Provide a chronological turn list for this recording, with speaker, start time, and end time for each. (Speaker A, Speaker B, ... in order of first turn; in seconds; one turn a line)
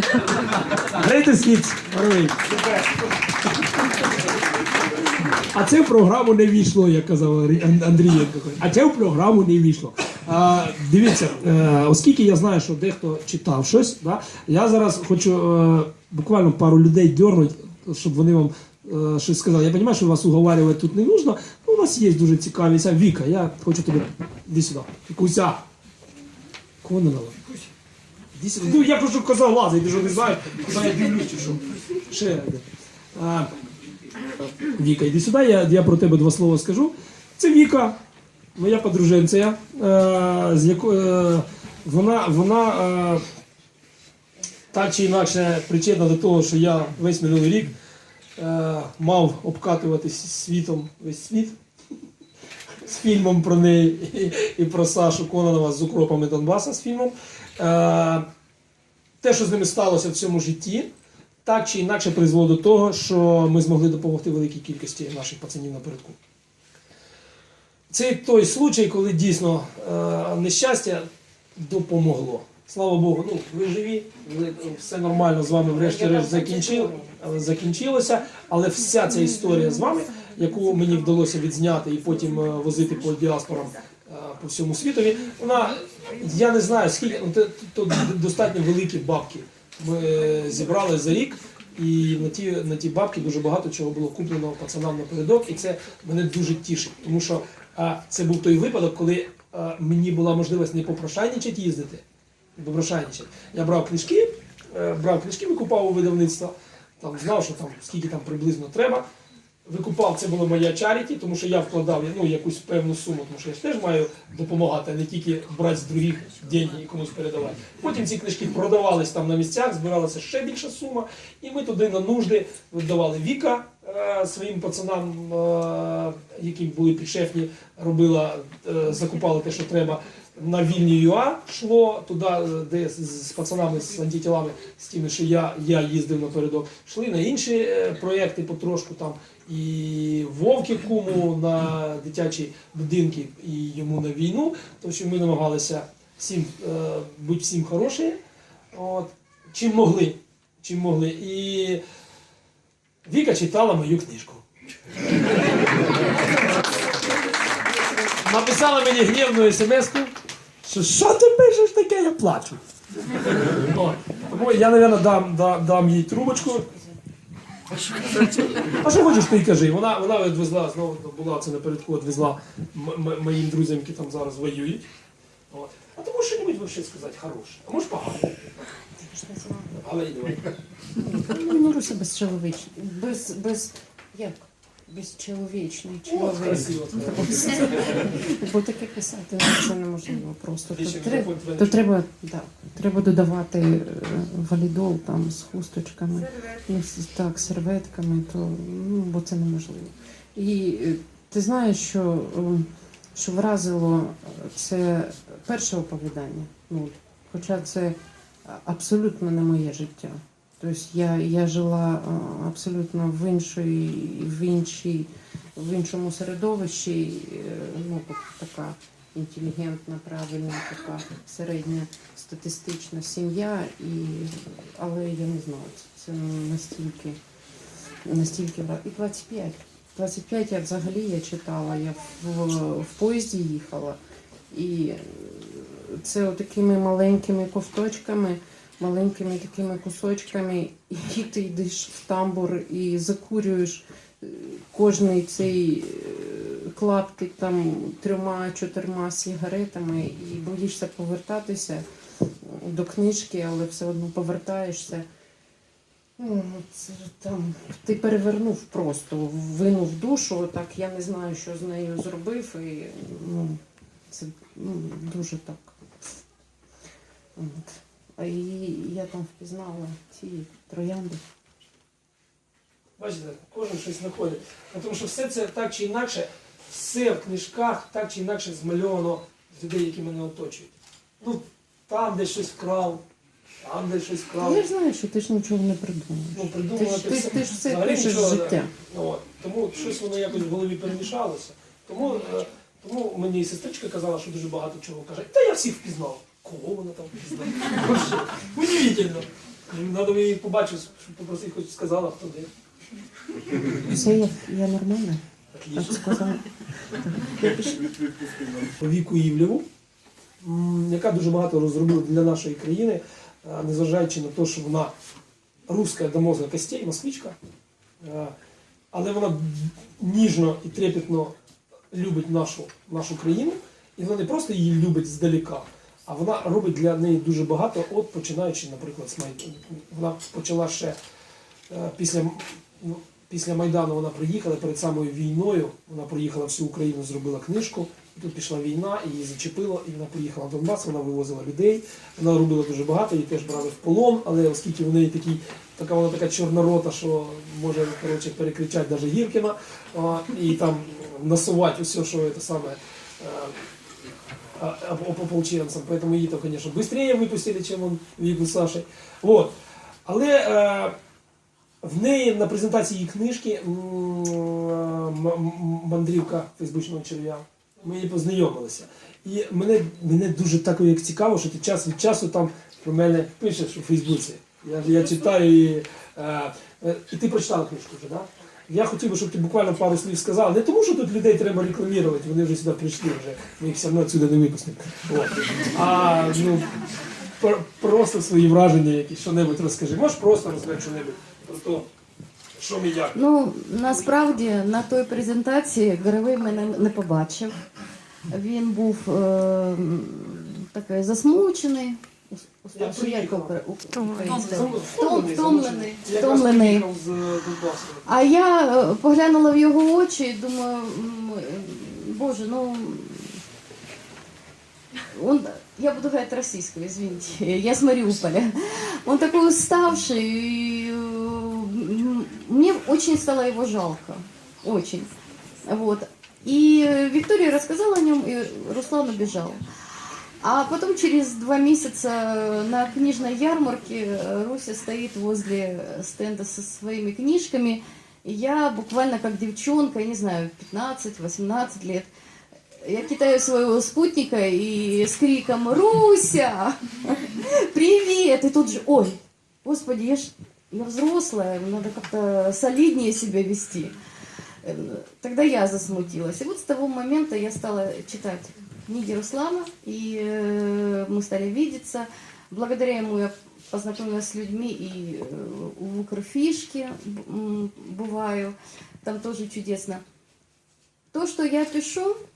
Speaker A: 0.3-2.6
Speaker A: 5.5-25.6
Speaker A: 26.8-27.4
Speaker A: 28.4-33.5
Speaker A: 34.7-38.0
Speaker A: 38.6-43.2
Speaker A: 44.7-47.7
Speaker A: 48.4-51.6
Speaker A: 52.8-58.3
Speaker A: 59.2-60.9
Speaker A: 61.5-66.2
Speaker A: 67.9-71.0
Speaker A: 71.6-102.0
Speaker B: 75.9-77.0
Speaker A: 102.6-109.0
Speaker A: 109.7-148.2
Speaker A: 148.7-151.8
Speaker A: 153.1-154.4
Speaker A: 158.2-162.6
Speaker A: 163.1-166.7
Speaker A: 168.1-174.9
Speaker A: 175.5-178.3
Speaker B: 179.0-179.8
Speaker A: 179.8-180.5
Speaker B: 181.0-227.2
Speaker A: 186.1-188.1
Speaker A: 190.7-191.9
Speaker B: 228.1-234.0
Speaker B: 234.5-251.8
Speaker B: 252.4-255.1
Speaker B: 256.2-263.6
Speaker B: 264.1-265.8
Speaker B: 267.4-271.2
Speaker A: 273.0-283.0
Speaker A: 283.6-284.7
Speaker B: 284.4-288.7
Speaker A: 286.3-302.5
Speaker B: 303.8-305.2
Speaker A: 305.5-306.2
Speaker B: 305.8-307.8
Speaker A: 308.4-309.7
Speaker A: 310.4-314.9
Speaker A: 315.7-317.4
Speaker A: 318.0-318.4
Speaker A: 318.9-321.4
Speaker A: 321.9-331.0
Speaker A: 331.7-353.6
Speaker A: 354.6-359.5
Speaker A: 360.1-360.9
Speaker A: 361.8-386.7
Speaker A: 387.4-391.9
Speaker A: 392.6-393.2
Speaker C: 393.1-397.6
Speaker C: 398.3-406.9
Speaker A: 402.7-403.6
Speaker A: 404.3-408.1
Speaker C: 408.1-413.3
Speaker C: 415.1-425.1
Speaker C: 425.7-429.6
Speaker C: 430.4-442.1
Speaker C: 442.8-453.9
Speaker C: 454.6-470.0
Speaker C: 471.1-472.1